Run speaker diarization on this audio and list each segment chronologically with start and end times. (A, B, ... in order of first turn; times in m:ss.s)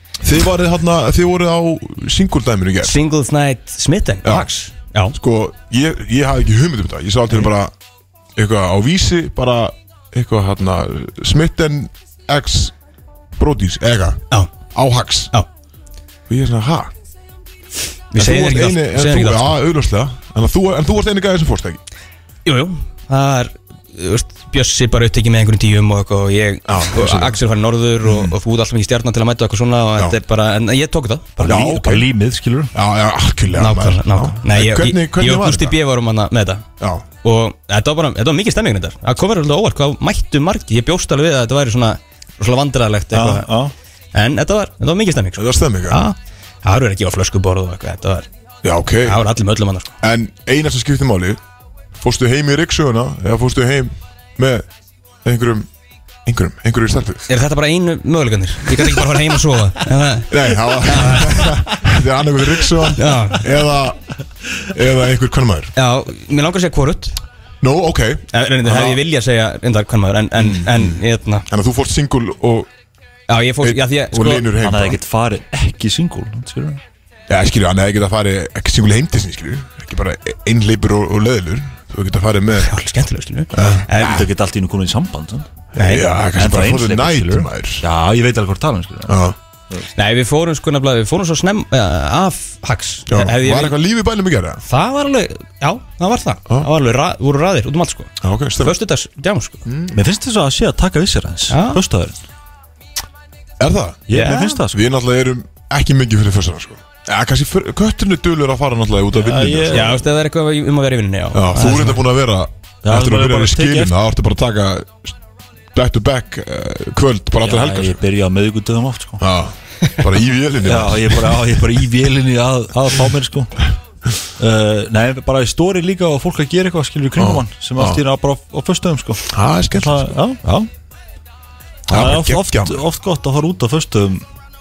0:00.2-0:03.0 A
0:02.8-0:05.2 B
0:04.2-0:04.5 A
0:05.1-0:07.7 A
0:08.4-0:12.7 A
0:13.4-0:15.3 A
0:16.3-0:16.9 A
0:18.1-0:19.6 B
0:18.2-0:21.8 A
0:22.5-0:31.6 B
0:26.7-0:27.4 A
0:28.0-0:28.4 A
0:31.4-0:32.1 A
0:31.4-0:32.7 C
0:32.7-0:35.8 A
0:33.6-0:36.6 B
0:36.8-0:37.0 A
0:37.2-0:43.5 B
0:43.1-0:43.7 C
0:44.1-0:48.3 B
0:45.4-0:46.0 A
0:48.6-0:49.2 A
0:49.0-0:49.9 B
0:50.0-0:51.4 A
0:52.0-0:54.6 A
0:55.2-0:55.7 A
0:56.3-0:57.2 A
0:57.3-1:01.6 B
1:00.3-1:04.0 A
1:03.0-1:03.4 B
1:04.6-1:05.7 A
1:05.8-1:07.2 B
1:07.6-1:09.0 A
1:08.3-1:11.4 B
1:10.4-1:12.7 A
1:13.3-1:14.5 B
1:13.6-1:15.0 A
1:14.6-1:16.8 C
1:17.3-1:22.7 A
1:22.6-1:24.2 B
1:23.5-1:24.3 A
1:24.0-1:25.5 C
1:25.7-1:27.8 A
1:25.8-1:26.1 B
1:26.3-1:29.8 C
1:29.1-1:29.4 A
1:30.0-1:33.8 B
1:33.1-1:34.6 A
1:34.6-1:39.6 B
1:38.2-1:38.8 A
1:39.6-1:40.0 A
1:39.9-1:42.2 C
1:41.5-1:41.8 B
1:43.6-1:50.0 A
1:44.1-1:44.8 C
1:44.1-1:44.6 B
1:49.1-1:50.0 C
1:49.7-1:52.0 B
1:51.3-1:55.1 A
1:52.8-1:53.9 C
1:55.7-1:58.0 A
1:57.4-1:59.2 C
1:59.2-2:01.6 A
2:00.6-2:03.7 C
2:04.4-2:10.7 C
2:07.2-2:08.0 A
2:09.3-2:10.2 A
2:11.9-2:12.8 A
2:11.9-2:14.2 C